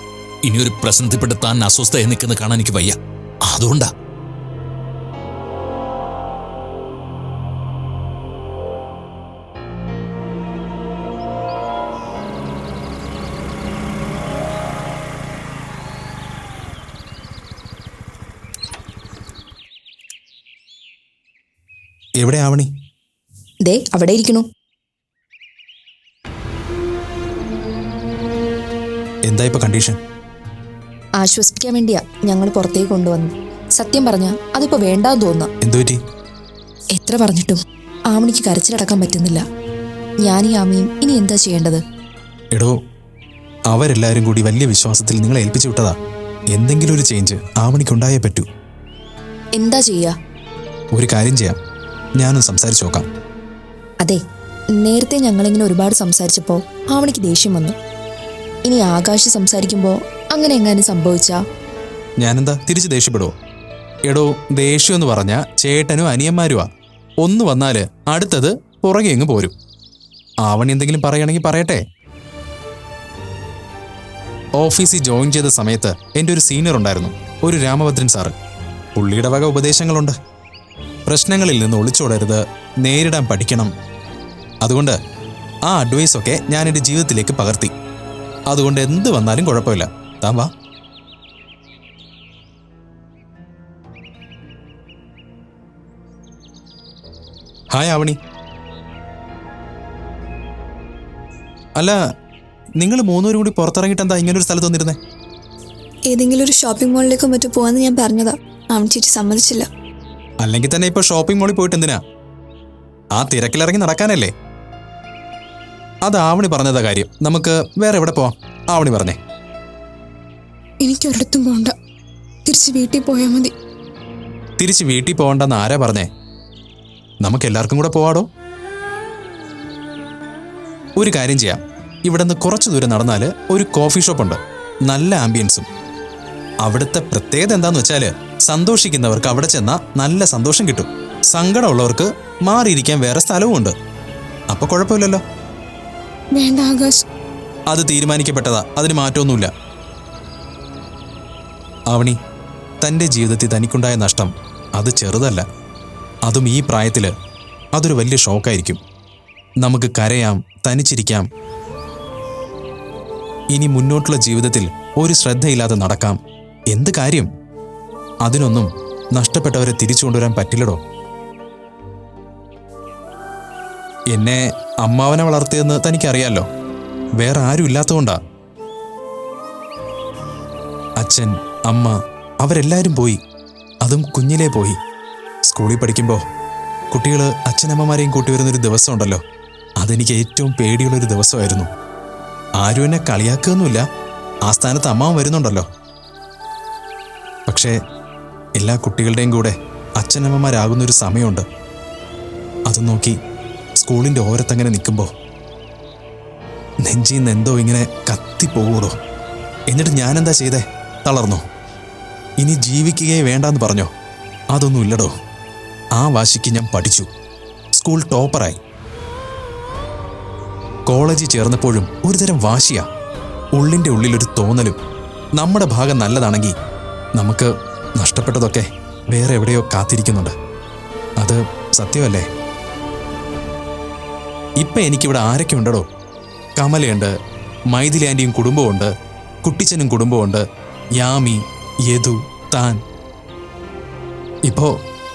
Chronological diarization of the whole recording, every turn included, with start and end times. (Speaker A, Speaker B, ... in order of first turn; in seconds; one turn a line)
Speaker A: 0.5-3.9
Speaker B: 22.2-22.7
Speaker C: 23.6-24.5
Speaker B: 29.3-30.0
Speaker C: 31.2-35.5
Speaker B: 35.6-36.0
Speaker C: 37.0-37.6
Speaker C: 38.1-39.4
Speaker C: 40.2-41.8
Speaker B: 43.7-46.0
Speaker B: 46.5-48.5
Speaker C: 49.6-50.1
Speaker B: 50.9-51.6
Speaker B: 52.2-53.1
Speaker C: 54.8-57.8
Speaker C: 58.7-61.4
Speaker B: 62.2-63.3
Speaker B: 64.1-66.7
Speaker B: 67.2-69.5
Speaker B: 70.4-71.8
Speaker B: 74.6-78.3
Speaker B: 79.0-80.2
Speaker B: 81.1-83.7
Speaker B: 84.6-85.0
Speaker B: 85.7-87.7
Speaker B: 88.5-90.5
Speaker B: 97.7-98.2
Speaker B: 102.8-105.0
Speaker D: 106.1-109.7
Speaker B: 110.4-112.0
Speaker B: 113.2-114.3
Speaker B: 116.1-119.2
Speaker E: 120.8-121.8
Speaker E: 122.5-123.5
Speaker B: 124.6-126.1
Speaker B: 127.2-128.3
Speaker B: 131.0-135.7
Speaker B: 136.6-143.7
Speaker B: 144.5-145.2
Speaker E: 146.3-147.1
Speaker B: 147.7-149.5
Speaker B: 151.9-152.2
Speaker B: 152.8-155.4
Speaker B: 156.3-157.1
Speaker B: 157.8-158.8
Speaker B: 159.6-161.3
Speaker B: 163.5-166.2
Speaker B: 166.7-167.3
Speaker B: 168.2-170.8
Speaker B: 174.1-176.5
Speaker B: 177.2-178.2
Speaker B: 181.0-183.2
Speaker B: 183.8-184.8
Speaker B: 185.5-186.2
Speaker B: 186.9-189.2
Speaker B: 189.8-191.7
Speaker B: 192.6-193.8
Speaker B: 194.5-195.7
Speaker B: 197.5-197.8
Speaker B: 198.6-201.4
Speaker B: 202.7-203.2
Speaker B: 203.8-205.1
Speaker B: 206.8-208.9
Speaker B: 209.7-211.4
Speaker B: 212.4-213.9
Speaker B: 214.5-215.1
Speaker B: 216.0-217.1
Speaker B: 217.8-218.6
Speaker B: 220.9-222.8
Speaker B: 223.6-224.8
Speaker B: 225.4-226.5
Speaker B: 227.2-230.3
Speaker B: 231.2-232.3
Speaker B: 234.6-235.8
Speaker B: 236.6-237.1
Speaker B: 237.7-238.9
Speaker B: 239.4-240.4
Speaker B: 241.0-242.8